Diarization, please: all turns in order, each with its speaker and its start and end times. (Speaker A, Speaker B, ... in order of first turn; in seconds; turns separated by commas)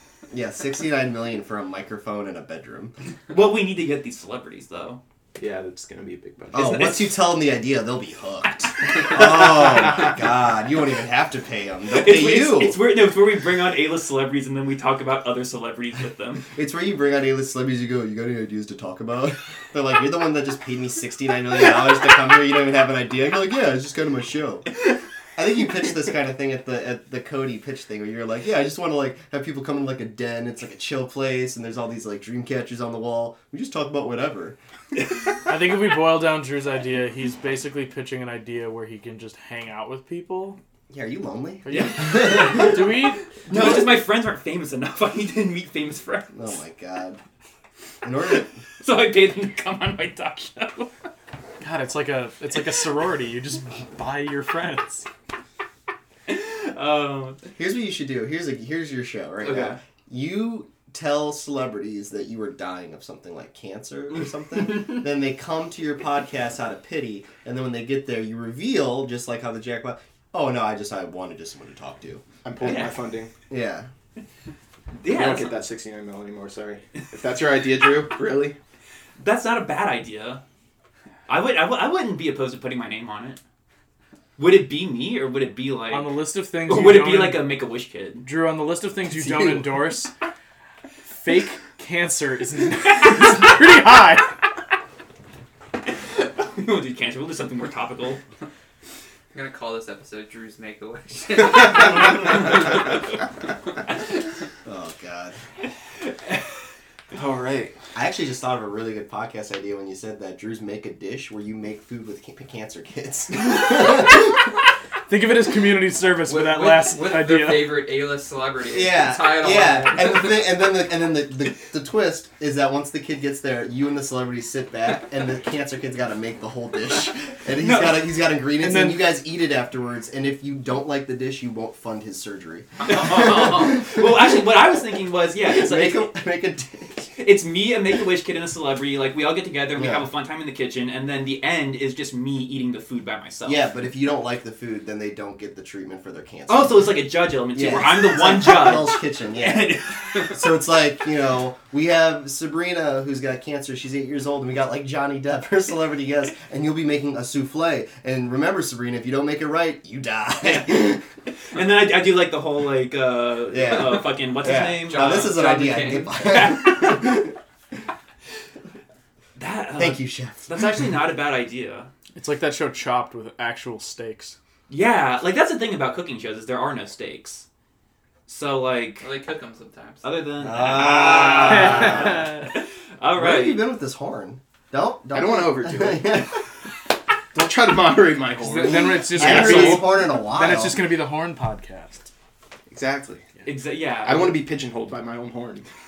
Speaker A: 0.3-2.9, Speaker B: 3.3-5.0, Speaker C: 5.4-6.9, Speaker A: 6.5-12.8, Speaker B: 8.9-9.4, Speaker B: 11.9-16.4, Speaker A: 16.5-24.8, Speaker A: 25.4-34.6, Speaker D: 35.5-40.6, Speaker A: 40.9-43.9, Speaker D: 41.6-43.3, Speaker B: 41.7-42.8, Speaker B: 43.5-46.5, Speaker A: 46.3-47.2, Speaker A: 48.0-48.6, Speaker B: 48.3-50.9, Speaker D: 51.6-55.1, Speaker B: 56.3-57.4, Speaker A: 57.6-72.2, Speaker B: 59.4-59.8, Speaker C: 72.4-73.3, Speaker B: 72.6-73.0, Speaker A: 73.5-73.9, Speaker B: 75.0-75.6, Speaker C: 75.1-78.6, Speaker B: 79.2-80.4, Speaker B: 81.3-83.4, Speaker B: 84.4-88.3, Speaker D: 85.9-87.4, Speaker D: 88.2-90.1, Speaker C: 89.1-89.7, Speaker D: 91.1-94.4, Speaker B: 96.1-98.2, Speaker E: 99.3-102.3, Speaker A: 104.7-105.4, Speaker C: 107.1-107.8, Speaker A: 108.0-114.4, Speaker D: 115.1-117.8, Speaker E: 116.2-120.4, Speaker A: 118.7-134.1, Speaker B: 127.6-128.2, Speaker D: 128.6-129.1, Speaker B: 132.9-136.1, Speaker A: 135.4-137.2, Speaker B: 137.2-143.8, Speaker A: 139.8-140.1, Speaker A: 143.4-146.9, Speaker B: 146.5-150.4, Speaker A: 147.5-149.7, Speaker A: 150.3-161.0, Speaker B: 160.4-161.0, Speaker B: 161.5-165.4, Speaker A: 163.5-167.4, Speaker E: 164.9-166.3, Speaker B: 166.2-167.2, Speaker B: 169.4-171.9, Speaker A: 169.8-170.8, Speaker D: 172.2-174.4, Speaker B: 174.7-177.5, Speaker B: 178.3-179.2, Speaker E: 179.0-180.1, Speaker B: 180.0-183.6, Speaker A: 180.4-182.3, Speaker D: 181.4-182.5, Speaker A: 183.2-186.4, Speaker C: 185.1-186.2, Speaker C: 187.3-189.5, Speaker D: 188.4-192.1, Speaker A: 188.6-190.8, Speaker B: 189.2-189.8, Speaker C: 192.7-193.2, Speaker B: 193.4-194.4, Speaker C: 194.0-195.7